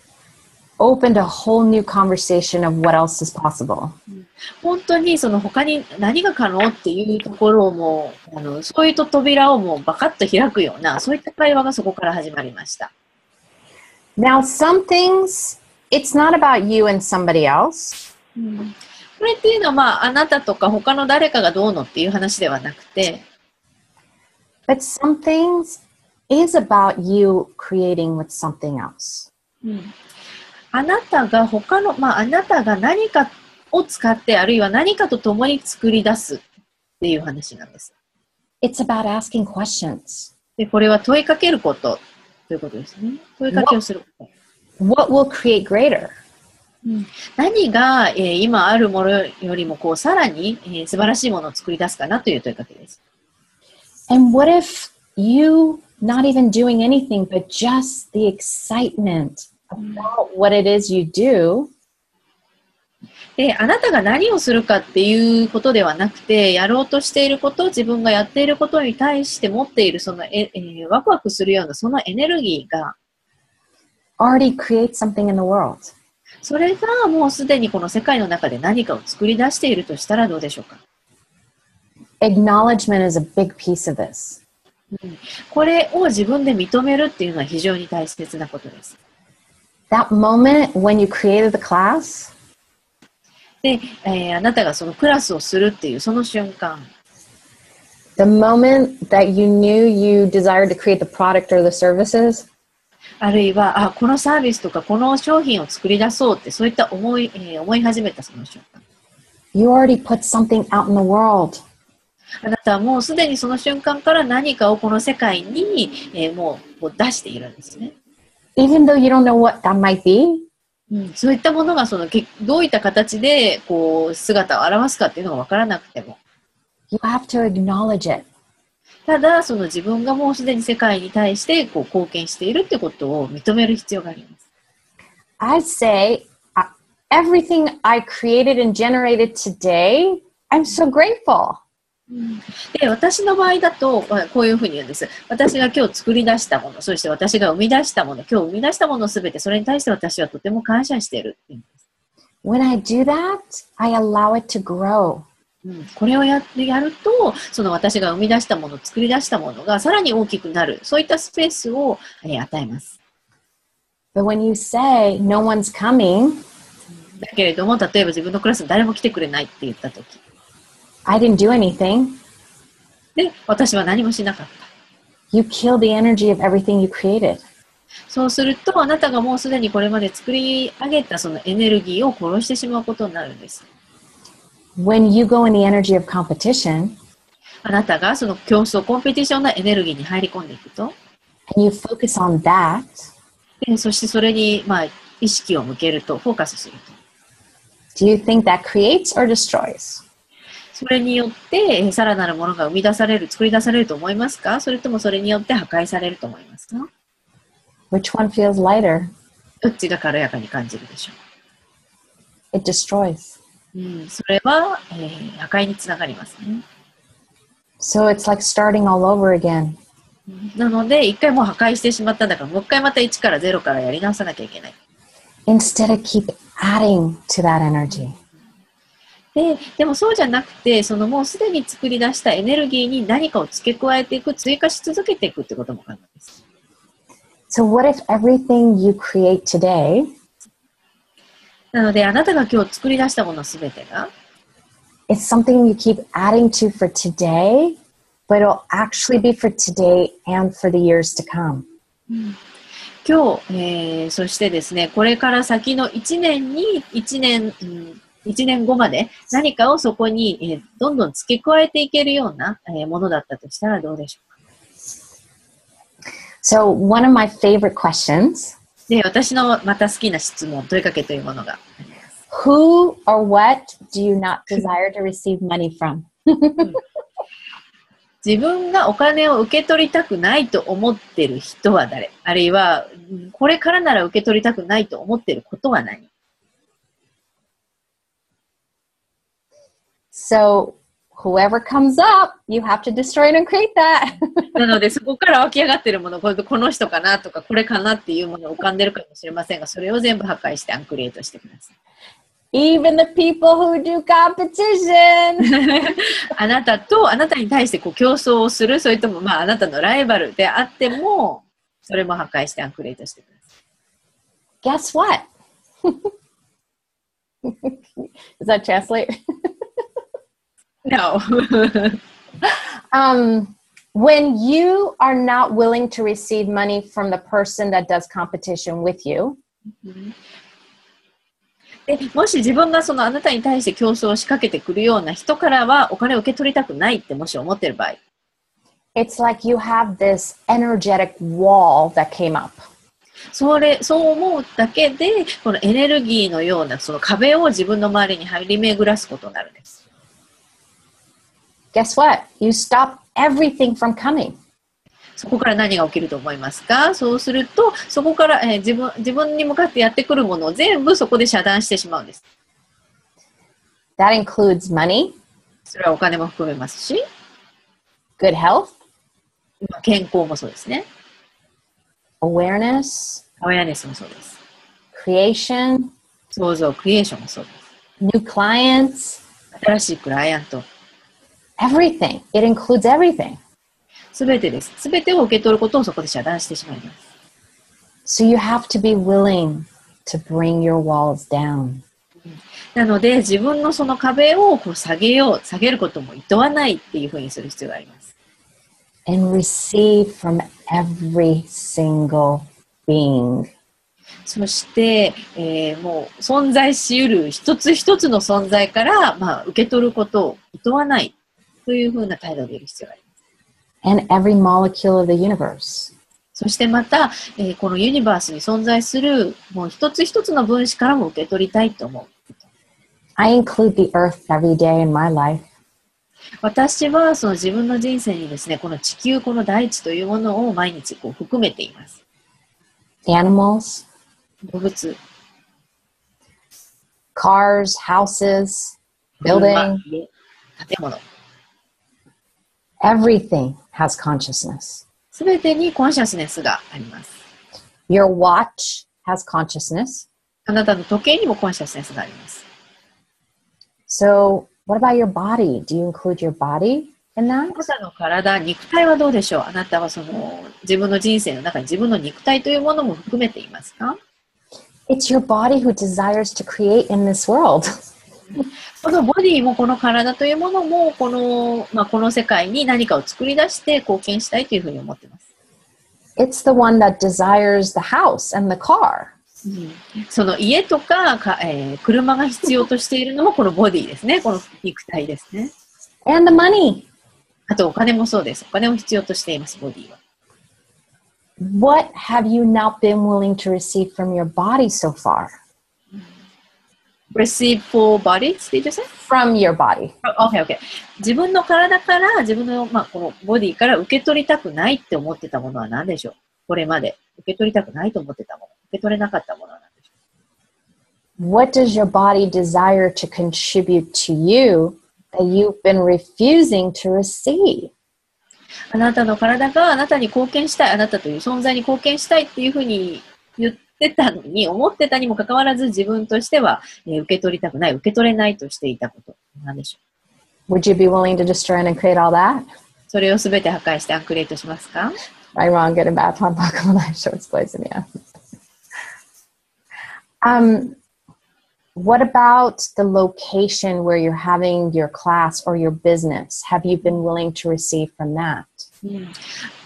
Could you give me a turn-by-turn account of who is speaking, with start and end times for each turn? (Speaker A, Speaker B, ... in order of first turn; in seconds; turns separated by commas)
Speaker A: 0.8-4.0, Speaker B: 4.1-12.9, Speaker A: 14.2-18.0, Speaker B: 18.4-23.2, Speaker A: 24.7-29.3, Speaker B: 29.6-29.9, Speaker B: 30.7-36.4, Speaker B: 37.0-37.9, Speaker A: 38.6-40.3, Speaker B: 40.6-44.3, Speaker A: 44.8-46.2, Speaker B: 46.9-53.0, Speaker A: 54.1-61.7, Speaker B: 63.4-73.0, Speaker A: 74.2-75.9, Speaker B: 76.4-80.8, Speaker A: 82.2-84.4, Speaker B: 84.9-89.0, Speaker A: 89.9-92.3, Speaker B: 93.6-96.9, Speaker A: 98.2-102.5, Speaker B: 103.2-108.8, Speaker A: 109.5-111.6, Speaker B: 112.4-117.9, Speaker A: 118.6-120.5, Speaker B: 120.9-126.2, Speaker A: 126.9-128.3, Speaker B: 129.1-134.4, Speaker A: 135.4-141.6, Speaker B: 142.1-151.7, Speaker A: 152.4-155.3, Speaker B: 155.7-162.9, Speaker A: 164.2-166.4, Speaker B: 167.2-170.2, Speaker A: 171.1-172.2, Speaker B: 173.2-174.7, Speaker A: 175.3-177.4, Speaker B: 178.1-183.7, Speaker A: 184.8-187.0, Speaker B: 187.6-190.9, Speaker A: 191.5-193.1, Speaker B: 193.6-197.0, Speaker A: 197.9-200.0, Speaker B: 200.7-206.9, Speaker A: 207.9-209.1, Speaker B: 209.6-211.2, Speaker A: 212.5-213.4, Speaker B: 213.7-216.6, Speaker A: 217.8-219.8, Speaker B: 220.3-224.8, Speaker A: 225.5-228.2, Speaker B: 229.3-236.3, Speaker A: 237.5-240.1, Speaker B: 241.7-244.1, Speaker A: 245.1-247.8, Speaker A: 248.3-251.7, Speaker B: 252.1-252.4, Speaker B: 253.1-264.2, Speaker A: 266.4-268.6, Speaker B: 268.9-272.0, Speaker A: 272.3-276.8, Speaker B: 278.2-286.1, Speaker A: 290.1-294.5, Speaker B: 294.6-301.7, Speaker A: 302.5-305.5, Speaker B: 305.5-313.3, Speaker A: 314.6-315.3, Speaker A: 315.8-316.1, Speaker A: 317.4-319.1, Speaker B: 320.9-322.0, Speaker A: 322.4-329.4, Speaker B: 329.8-330.1, Speaker B: 331.9-338.0, Speaker A: 338.9-342.6, Speaker B: 343.3-349.8, Speaker A: 351.7-354.4, Speaker B: 355.2-362.2, Speaker A: 364.0-365.2, Speaker B: 365.7-367.1, Speaker A: 368.2-368.8, Speaker B: 369.6-370.9, Speaker A: 372.2-373.2, Speaker B: 373.4-374.4, Speaker A: 374.9-375.9, Speaker B: 376.3-377.6, Speaker A: 378.0-379.2, Speaker B: 379.5-380.6, Speaker A: 381.6-383.4, Speaker B: 384.1-387.0, Speaker A: 388.1-391.8, Speaker B: 392.3-398.1, Speaker A: 399.1-403.5, Speaker B: 404.3-411.1, Speaker B: 411.7-413.0, Speaker A: 413.8-415.9, Speaker B: 416.4-422.4, Speaker A: 423.2-425.5, Speaker B: 426.4-432.0, Speaker A: 433.1-433.9, Speaker B: 434.5-435.0, Speaker A: 437.1-439.8, Speaker B: 439.2-441.0, Speaker A: 442.8-444.8, Speaker B: 445.1-447.2, Speaker A: 447.9-450.1, Speaker B: 450.5-452.4, Speaker A: 453.9-457.7, Speaker B: 457.5-464.0, Speaker A: 464.9-467.7, Speaker B: 468.8-475.2, Speaker A: 476.2-479.1, Speaker B: 479.4-485.5, Speaker A: 486.1-486.9, Speaker B: 487.5-490.0, Speaker A: 491.4-495.3, Speaker B: 497.1-499.0, Speaker A: 499.1-499.9, Speaker B: 500.0-509.7, Speaker A: 511.2-517.7, Speaker B: 518.7-529.8, Speaker A: 530.5-532.5, Speaker B: 532.9-535.0, Speaker A: 535.4-537.9, Speaker A: 540.2-540.8, Speaker A: 541.8-548.7, Speaker B: 548.8-549.1